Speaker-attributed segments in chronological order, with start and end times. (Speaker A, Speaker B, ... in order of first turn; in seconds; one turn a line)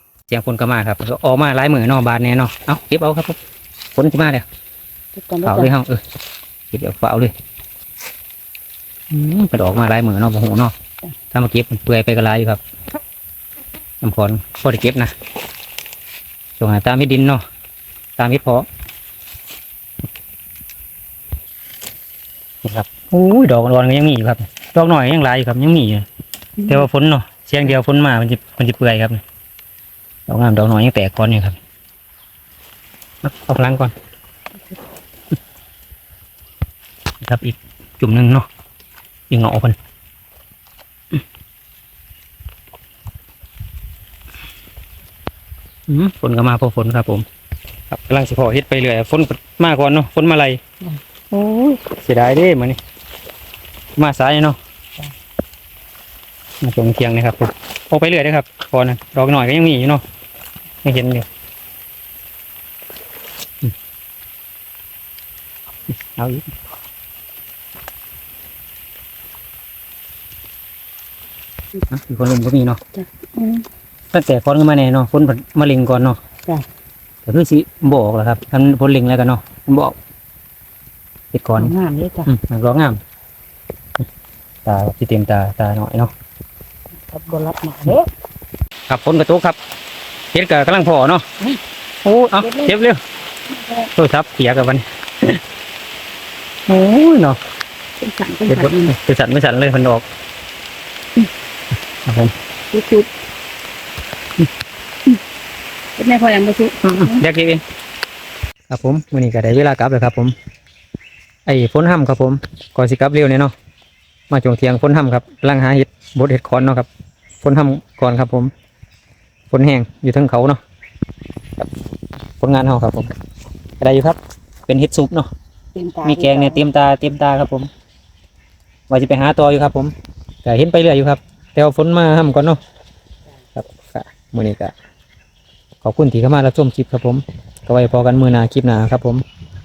Speaker A: 0.3-3.4
Speaker A: 4.0-4.5
Speaker B: 5.1-5.7
Speaker A: 5.4-6.0
Speaker A: 6.7-7.3
Speaker A: 9.1-10.7
Speaker A: 11.3-12.6
Speaker A: 14.0-15.1
Speaker A: 16.6-17.4
Speaker A: 18.2-18.7
Speaker A: 22.6-26.1
Speaker A: 26.6-29.2
Speaker A: 30.3-31.6
Speaker A: 33.2-33.9
Speaker A: 37.2-38.5
Speaker A: 39.3-39.8
Speaker A: 45.9-47.3
Speaker A: 47.9-50.6
Speaker A: 51.3-52.8
Speaker A: 54.0-54.6
Speaker A: 56.6-60.0
Speaker A: 60.8-61.3
Speaker A: 66.2-66.5
Speaker A: 71.9-72.8
Speaker B: 73.0-73.7
Speaker A: 74.1-76.2
Speaker A: 77.2-80.0
Speaker A: 81.3-81.7
Speaker B: 81.6-82.3
Speaker A: 82.3-83.0
Speaker A: 84.7-86.1
Speaker B: 87.1-88.1
Speaker A: 88.9-89.6
Speaker A: 90.3-91.2
Speaker A: 92.0-93.0
Speaker B: 92.4-92.8
Speaker B: 93.5-93.9
Speaker A: 93.9-95.4
Speaker A: 96.7-97.4
Speaker B: 98.0-99.0
Speaker A: 98.5-100.0
Speaker A: 102.1-102.3
Speaker B: 102.7-103.1
Speaker B: 106.0-107.2
Speaker A: 106.8-107.6
Speaker A: 108.7-110.3
Speaker A: 111.5-113.5
Speaker A: 114.3-116.9
Speaker A: 117.4-118.5
Speaker A: 119.5-120.6
Speaker A: 122.4-123.1
Speaker A: 123.8-125.3
Speaker B: 125.8-126.6
Speaker A: 126.0-127.7
Speaker A: 128.9-129.9
Speaker A: 130.4-132.6
Speaker A: 133.6-134.7
Speaker A: 135.8-139.2